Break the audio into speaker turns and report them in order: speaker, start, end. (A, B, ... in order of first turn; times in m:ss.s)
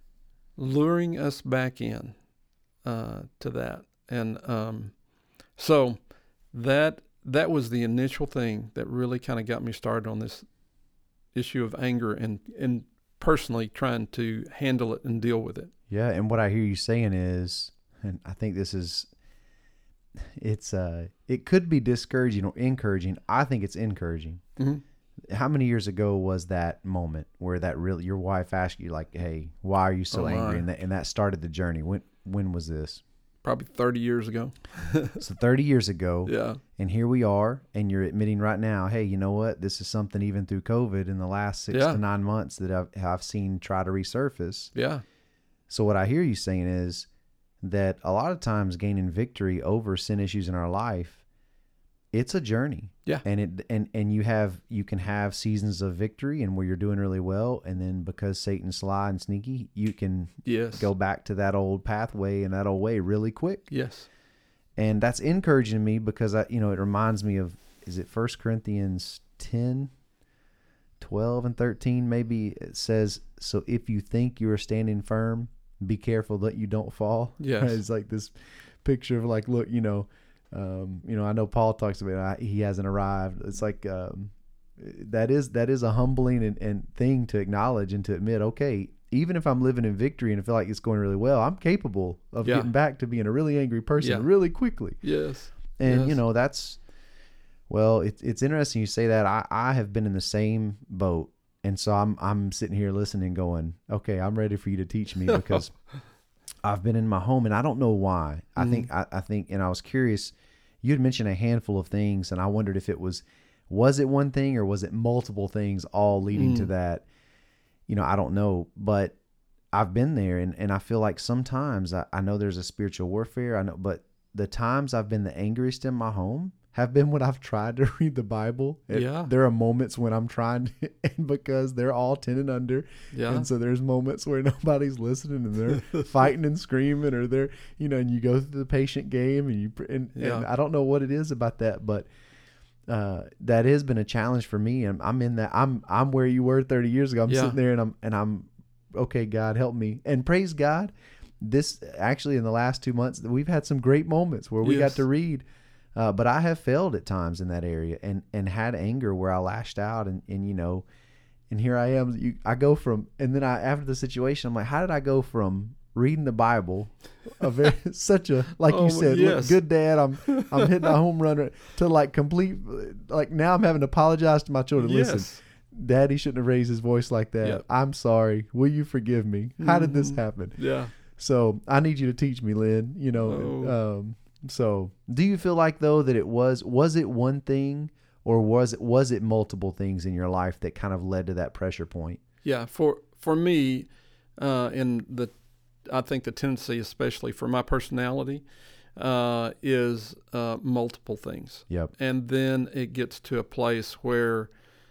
0:00.6-0:02.2 A
0:02.8-0:05.0 A
0:05.6-0:06.0 A
0:06.5-0:10.5 A
0:11.3-0:15.7 A
0:15.9-0:19.1 B
0:20.4-0:24.4 B
0:24.6-0:24.8 A
0:25.3-0:33.0 B
0:30.1-0:30.6 A
0:33.4-0:35.2 A
0:35.2-0:44.7 B
0:36.3-0:36.6 A
0:41.7-0:42.0 A
0:44.8-0:45.0 A
0:45.7-0:47.1 B
0:47.6-0:51.2 B
0:52.1-1:03.7 B
1:00.4-1:00.9 A
1:03.7-1:04.1 A
1:04.8-1:09.9 B
1:11.0-1:35.0 B
1:17.4-1:17.8 A
1:32.4-1:32.7 A
1:34.0-1:34.3 A
1:35.0-1:36.2 A
1:35.8-1:36.8 B
1:37.7-1:45.7 B
1:45.3-1:45.6 A
1:46.6-1:57.0 B
1:48.6-1:48.9 A
1:56.3-1:56.7 A
1:57.9-1:59.2 B
1:59.7-2:22.1 B
2:08.9-2:09.3 A
2:13.1-2:13.5 A
2:20.2-2:20.5 A
2:22.9-2:40.9 B
2:27.3-2:27.6 A
2:34.6-2:35.0 A
2:41.5-3:00.6 B
2:48.6-2:49.6 A
2:50.3-2:50.9 A
2:54.8-2:55.4 A
2:59.6-3:00.9 A
3:01.1-3:12.2 B
3:03.2-3:03.8 A
3:12.4-3:15.3 A
3:15.8-3:24.5 A